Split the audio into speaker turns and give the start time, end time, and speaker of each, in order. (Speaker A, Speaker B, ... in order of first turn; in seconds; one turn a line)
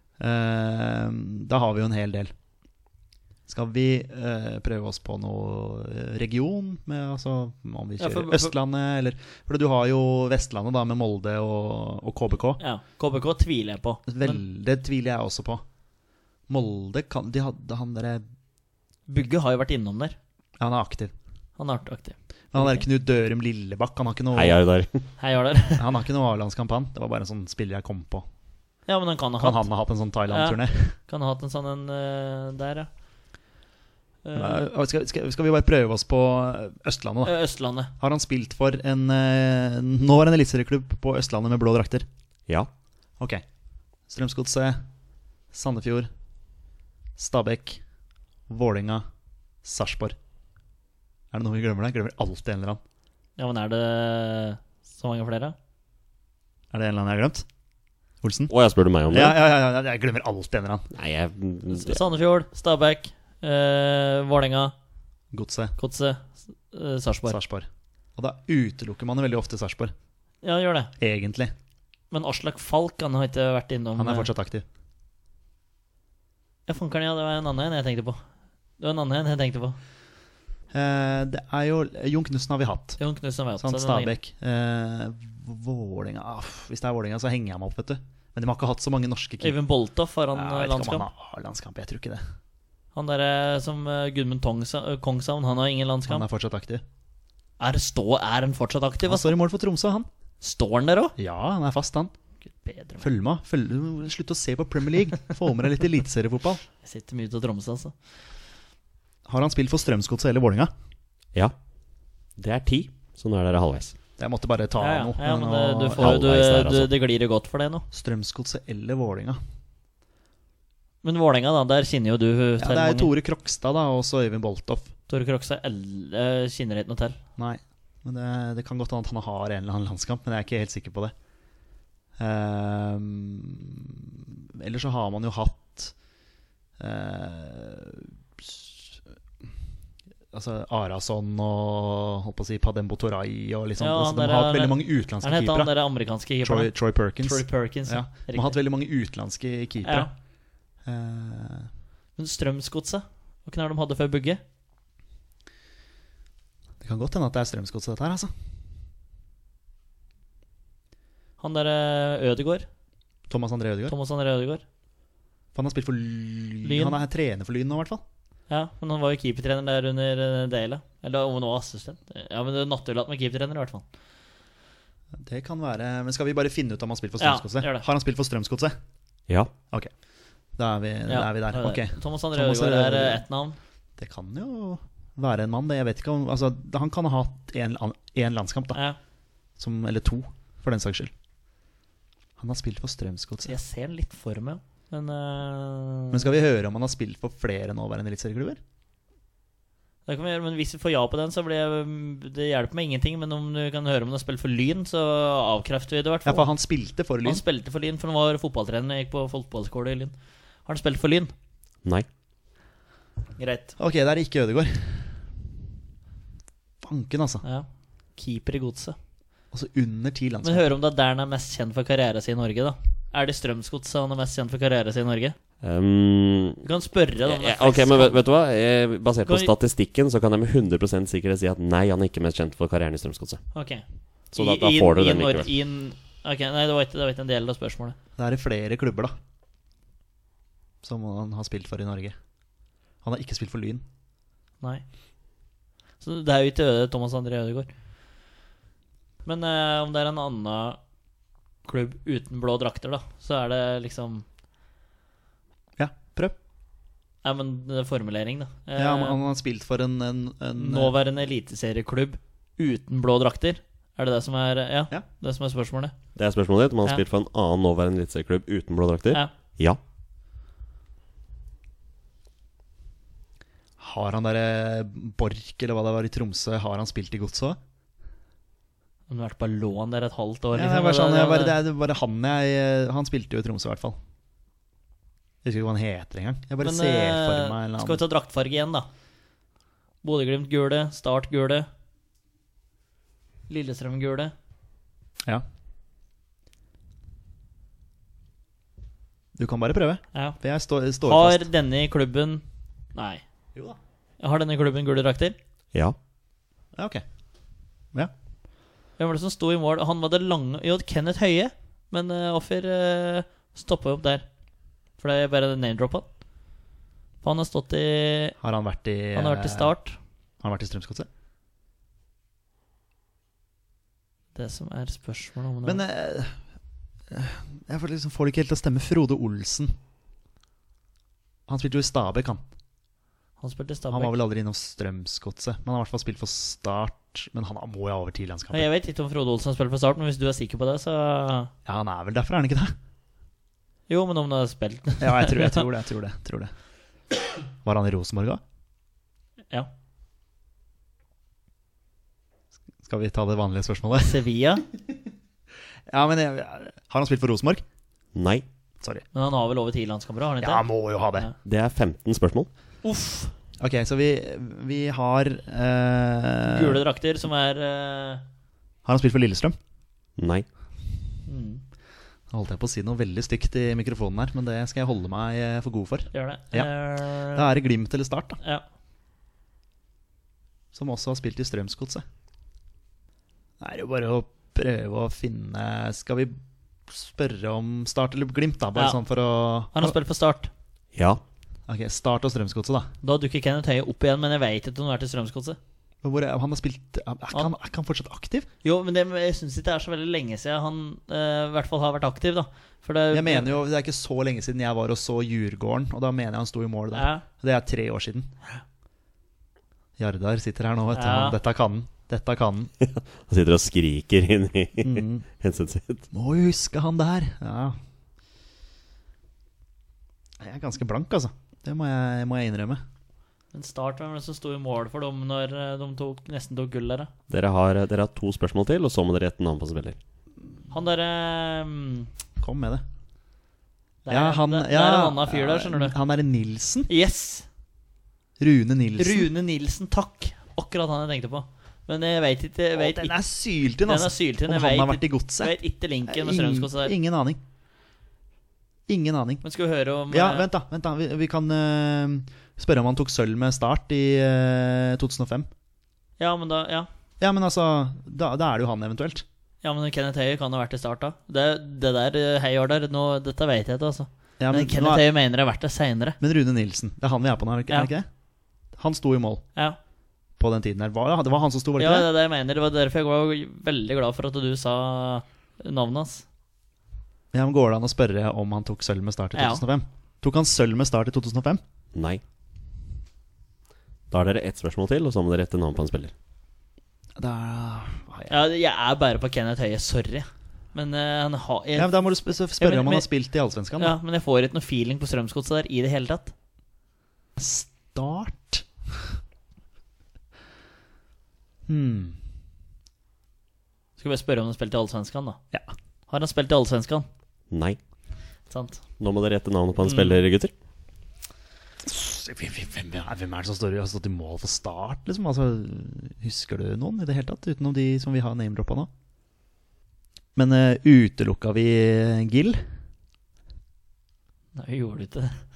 Speaker A: 0.2-2.3
Speaker A: 3.5-12.6
Speaker B: 8.0-8.5
Speaker B: 12.6-14.4
Speaker A: 14.1-15.6
Speaker A: 16.5-18.2
Speaker B: 19.1-20.2
Speaker A: 20.6-21.1
Speaker B: 21.6-22.9
Speaker A: 22.5-24.6
Speaker C: 24.3-25.1
Speaker B: 25.2-25.9
Speaker A: 25.8-28.2
Speaker B: 28.9-29.7
Speaker A: 29.4-30.9
Speaker B: 30.3-32.9
Speaker B: 34.2-34.6
Speaker A: 34.3-37.3
Speaker B: 37.2-37.9
Speaker A: 38.0-42.0
Speaker A: 44.1-44.8
Speaker A: 45.5-46.1
Speaker A: 47.2-47.8
Speaker A: 48.5-49.0
Speaker A: 49.6-50.1
Speaker A: 51.3-52.8
Speaker B: 53.4-55.5
Speaker A: 56.7-57.4
Speaker A: 58.2-58.5
Speaker C: 58.5-59.4
Speaker A: 59.1-60.9
Speaker C: 60.9-62.0
Speaker B: 61.7-64.7
Speaker A: 65.3-65.8
Speaker B: 65.8-67.4
Speaker A: 67.3-69.9
Speaker B: 70.4-70.9
Speaker A: 71.0-71.5
Speaker B: 72.1-74.3
Speaker A: 74.0-74.6
Speaker B: 76.7-78.2
Speaker B: 78.8-79.8
Speaker A: 80.7-83.0
Speaker B: 83.0-84.2
Speaker A: 83.6-89.6
Speaker B: 89.4-91.0
Speaker A: 90.3-92.2
Speaker B: 92.9-96.2
Speaker A: 96.1-96.8
Speaker B: 97.6-99.3
Speaker A: 99.0-100.1
Speaker B: 100.4-101.1
Speaker A: 101.2-102.1
Speaker B: 102.4-103.1
Speaker A: 103.0-106.6
Speaker B: 106.8-107.9
Speaker A: 109.3-110.7
Speaker C: 112.4-113.9
Speaker A: 114.2-116.1
Speaker B: 114.8-117.8
Speaker C: 116.0-116.9
Speaker A: 117.9-119.4
Speaker B: 121.0-123.1
Speaker A: 122.6-124.9
Speaker B: 125.1-127.2
Speaker A: 127.4-131.1
Speaker A: 132.2-135.9
Speaker A: 136.8-138.9
Speaker A: 140.3-145.7
Speaker B: 143.8-148.6
Speaker A: 146.4-150.1
Speaker B: 149.8-150.1
Speaker A: 150.8-151.7
Speaker B: 152.2-154.4
Speaker A: 156.8-158.3
Speaker B: 161.4-162.7
Speaker A: 163.3-163.9
Speaker B: 163.9-164.6
Speaker A: 165.5-168.0
Speaker B: 166.6-167.0
Speaker B: 168.5-173.8
Speaker A: 175.2-178.8
Speaker B: 177.2-177.8
Speaker A: 180.6-183.2
Speaker B: 181.1-183.6
Speaker A: 184.0-188.8
Speaker A: 189.6-191.1
Speaker A: 192.4-193.5
Speaker B: 193.4-196.3
Speaker A: 196.1-198.6
Speaker B: 200.1-206.5
Speaker A: 206.2-207.4
Speaker B: 207.2-210.1
Speaker B: 210.7-211.3
Speaker B: 213.4-213.7
Speaker A: 213.8-215.2
Speaker A: 216.8-217.4
Speaker B: 217.4-218.9
Speaker A: 219.5-220.6
Speaker B: 220.4-225.3
Speaker C: 225.6-226.6
Speaker B: 226.6-228.2
Speaker C: 227.2-233.4
Speaker B: 229.2-229.5
Speaker B: 233.5-237.9
Speaker C: 234.3-235.5
Speaker A: 238.2-239.1
Speaker A: 240.8-242.1
Speaker A: 243.0-243.8
Speaker B: 246.0-247.7
Speaker B: 249.2-250.8
Speaker B: 251.7-254.2
Speaker A: 255.8-256.3
Speaker B: 257.2-259.2
Speaker A: 258.8-260.9
Speaker B: 260.6-265.9
Speaker C: 266.1-269.8
Speaker A: 273.8-277.6
Speaker B: 279.1-281.6
Speaker A: 280.5-283.9
Speaker A: 285.4-288.0
Speaker B: 286.6-288.9
Speaker B: 290.0-291.7
Speaker B: 293.5-294.3
Speaker A: 299.3-301.5
Speaker B: 301.1-302.4
Speaker B: 302.9-303.2
Speaker B: 304.2-305.4
Speaker A: 306.7-307.0
Speaker B: 309.0-314.2
Speaker B: 315.0-316.1
Speaker B: 317.2-318.4
Speaker A: 318.4-319.7
Speaker B: 319.1-320.0
Speaker A: 320.4-321.1
Speaker B: 324.3-325.8
Speaker A: 325.6-326.4
Speaker A: 327.1-329.7
Speaker A: 331.5-332.4
Speaker B: 333.4-334.1
Speaker A: 333.9-338.7
Speaker B: 338.5-341.5
Speaker A: 341.6-342.7
Speaker B: 343.9-345.6
Speaker A: 345.0-346.5
Speaker A: 347.6-348.4
Speaker A: 352.8-354.2
Speaker B: 354.0-354.6
Speaker A: 355.9-357.6
Speaker C: 358.1-358.4
Speaker B: 359.1-360.6
Speaker A: 360.4-361.3
Speaker C: 361.4-362.5
Speaker B: 362.8-363.3
Speaker A: 363.6-366.8
Speaker B: 366.4-368.2
Speaker A: 368.9-369.6
Speaker C: 370.2-370.4
Speaker B: 371.3-371.6
Speaker A: 372.3-378.4
Speaker B: 376.1-377.5
Speaker A: 380.7-382.0
Speaker A: 383.6-386.4
Speaker A: 386.9-389.9
Speaker B: 389.7-390.5
Speaker C: 390.9-391.2
Speaker A: 391.7-392.9
Speaker B: 393.0-395.6
Speaker A: 396.0-398.5
Speaker B: 398.6-403.5
Speaker A: 403.1-408.3
Speaker B: 406.9-407.2
Speaker A: 410.0-412.7
Speaker B: 410.9-411.4
Speaker C: 412.8-416.0
Speaker A: 414.8-415.2
Speaker A: 416.1-417.8
Speaker A: 420.4-422.8
Speaker B: 423.5-427.1
Speaker C: 427.3-430.0
Speaker B: 430.7-432.1
Speaker A: 432.4-432.8
Speaker B: 434.0-435.9
Speaker A: 434.1-436.9
Speaker B: 436.9-437.4
Speaker A: 438.4-439.3
Speaker B: 439.0-443.1
Speaker A: 442.8-445.6
Speaker B: 443.9-446.9
Speaker A: 446.1-447.4
Speaker A: 448.9-449.4
Speaker B: 449.4-450.4
Speaker A: 450.1-455.5
Speaker B: 456.2-456.9
Speaker A: 457.2-459.2
Speaker B: 459.6-466.2
Speaker A: 464.4-465.0
Speaker A: 466.2-468.1
Speaker A: 468.8-469.5
Speaker A: 470.4-472.1
Speaker B: 471.8-476.2
Speaker A: 477.3-481.6
Speaker B: 479.4-479.6
Speaker C: 481.9-482.2
Speaker C: 484.1-486.1
Speaker A: 487.2-488.3
Speaker B: 488.3-491.9
Speaker A: 491.8-493.9
Speaker B: 492.6-493.1
Speaker B: 493.8-496.3
Speaker A: 497.4-498.6
Speaker A: 501.7-502.2
Speaker B: 504.0-505.4
Speaker B: 506.1-507.1
Speaker C: 507.5-507.8
Speaker B: 508.5-508.8
Speaker C: 509.0-510.5
Speaker B: 509.8-510.1
Speaker A: 511.9-518.9
Speaker A: 520.4-522.6
Speaker B: 524.5-525.4